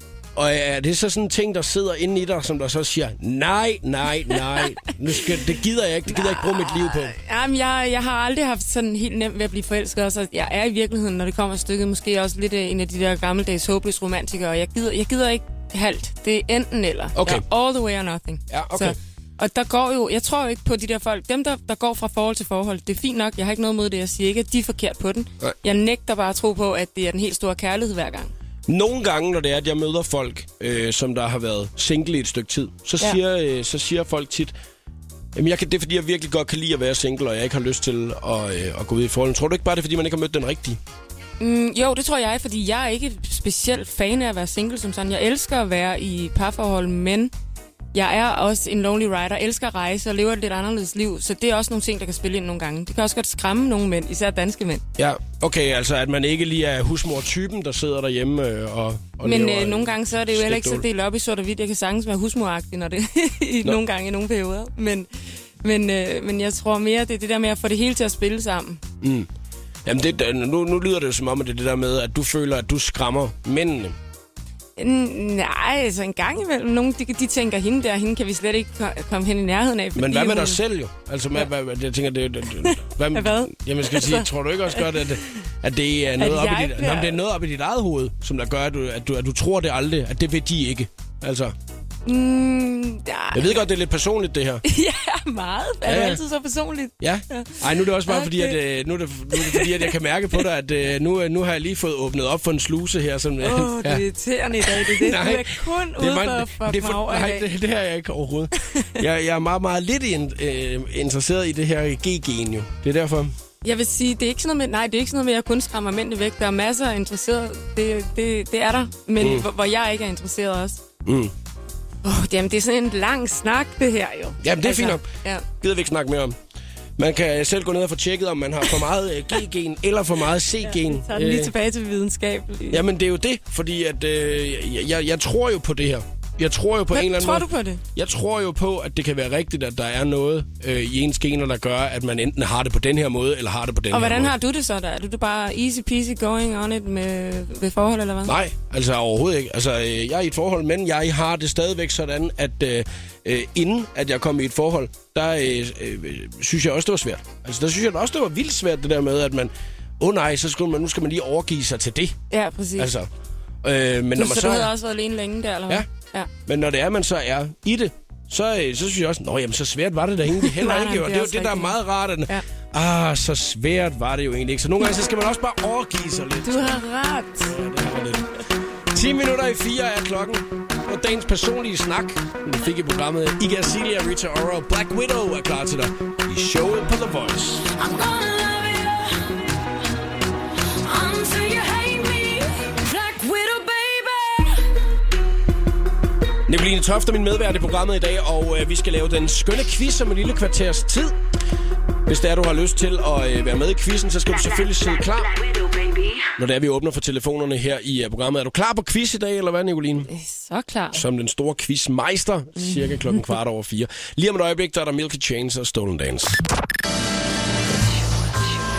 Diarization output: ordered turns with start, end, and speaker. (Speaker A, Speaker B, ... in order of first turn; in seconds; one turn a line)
Speaker A: 0.3-7.2
Speaker B: 6.1-28.3
Speaker A: 17.1-17.4
Speaker A: 18.5-18.9
Speaker A: 28.7-34.5
Speaker A: 35.3-40.8
Speaker B: 41.4-47.3
Speaker B: 47.9-54.8
Speaker A: 55.0-60.8
Speaker B: 59.2-65.1
Speaker B: 65.6-68.8
Speaker A: 69.0-69.3
Speaker A: 69.8-74.0
Speaker B: 74.8-80.6
Speaker A: 79.9-91.5
Speaker B: 82.6-85.3
Speaker B: 86.2-87.2
Speaker B: 92.0-93.7
Speaker A: 93.3-94.6
Speaker B: 94.6-98.6
Speaker A: 95.8-96.2
Speaker A: 97.0-104.0
Speaker B: 99.3-100.0
Speaker B: 103.4-107.5
Speaker A: 104.6-113.3
Speaker B: 108.6-108.9
Speaker B: 113.6-120.8
Speaker A: 119.2-119.5
Speaker A: 121.0-121.3
Speaker B: 122.0-125.4
Speaker A: 124.4-126.4
Speaker A: 127.0-131.5
Speaker B: 130.6-132.8
Speaker A: 132.7-144.3
Speaker B: 136.9-137.8
Speaker B: 143.9-148.3
Speaker A: 148.2-162.2
Speaker B: 162.3-162.9
Speaker A: 162.8-163.1
Speaker A: 163.6-164.7
Speaker B: 164.2-166.3
Speaker A: 166.4-176.8
Speaker B: 170.4-172.4
Speaker B: 176.4-177.6
Speaker A: 177.4-178.3
Speaker A: 178.9-187.7
Speaker C: 187.8-189.3
Speaker C: 190.8-194.5
Speaker A: 196.5-201.2
Speaker A: 202.1-205.3
Speaker C: 204.4-206.3
Speaker A: 206.4-210.1
Speaker B: 210.1-211.0
Speaker A: 210.9-216.4
Speaker B: 212.6-213.2